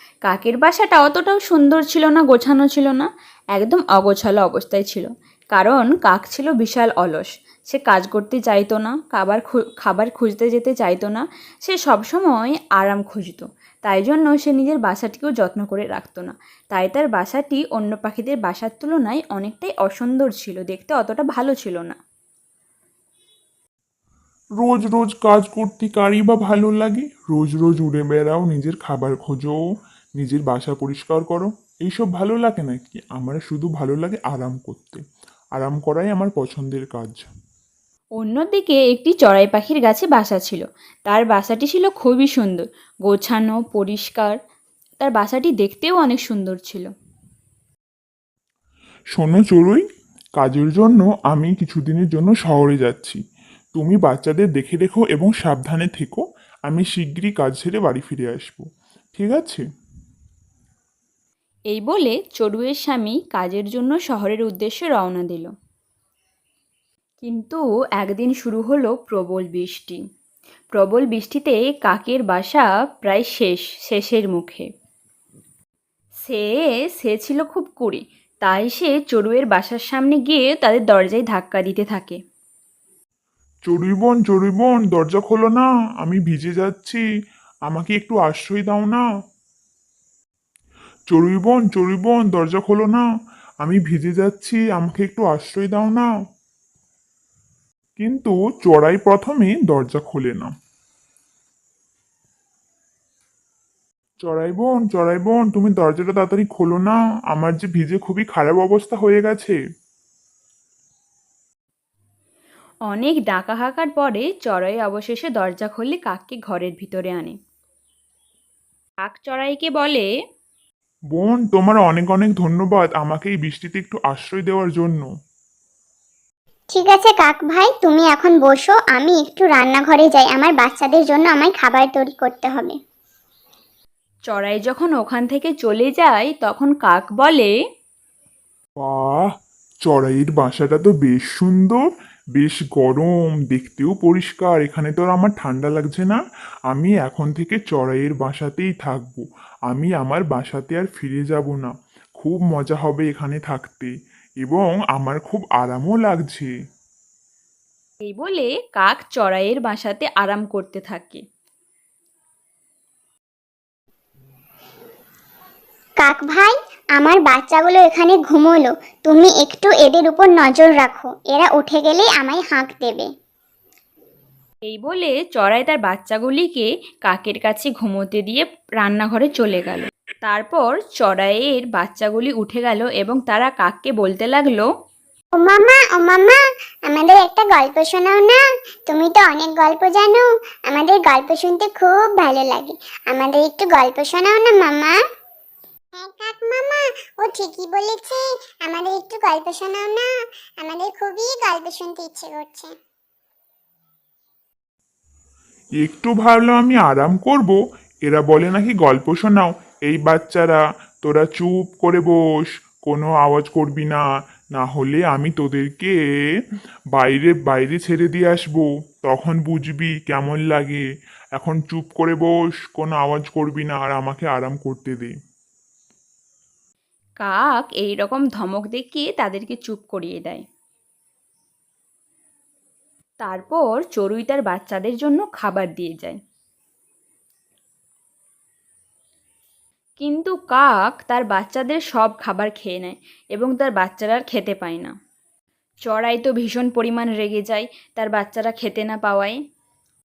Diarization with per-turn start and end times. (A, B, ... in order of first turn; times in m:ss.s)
0:00.2-0:22.0 A
0:24.6-0:29.6 B
0:30.2-0:35.0 B
0:35.5-0:37.3 B
0:38.2-0:44.4 A
0:45.0-0:46.9 A
0:49.1-0:49.8 B
0:50.4-0:53.2 B
0:53.7-0:58.6 B
0:59.1-0:59.6 B
1:01.7-1:05.5 A
1:07.2-1:10.0 A
1:10.7-1:14.7 A
1:16.2-1:22.2 A
1:23.7-1:27.0 B
1:27.7-1:29.0 B
1:31.1-1:33.0 B
1:33.6-1:36.1 B
1:38.0-1:40.5 B
1:44.2-1:49.6 B
1:52.9-1:57.3 A
1:59.0-2:00.1 A
2:01.1-2:05.1 B
2:06.7-2:12.8 C
2:14.3-2:17.5 A
2:18.8-2:19.2 B
2:19.8-2:21.8 B
2:22.4-2:36.5 B
2:38.0-2:41.2 A
2:46.0-2:53.1 C
2:54.7-3:04.7 A
3:05.4-3:15.0 C
3:15.9-3:20.1 C
3:20.6-3:22.7 C
3:25.8-3:36.0 B
3:36.9-3:40.8 B
3:41.4-3:45.1 B
3:47.2-3:50.4 A
3:53.2-3:56.2 A
4:00.0-4:04.9 A
4:05.8-4:09.4 A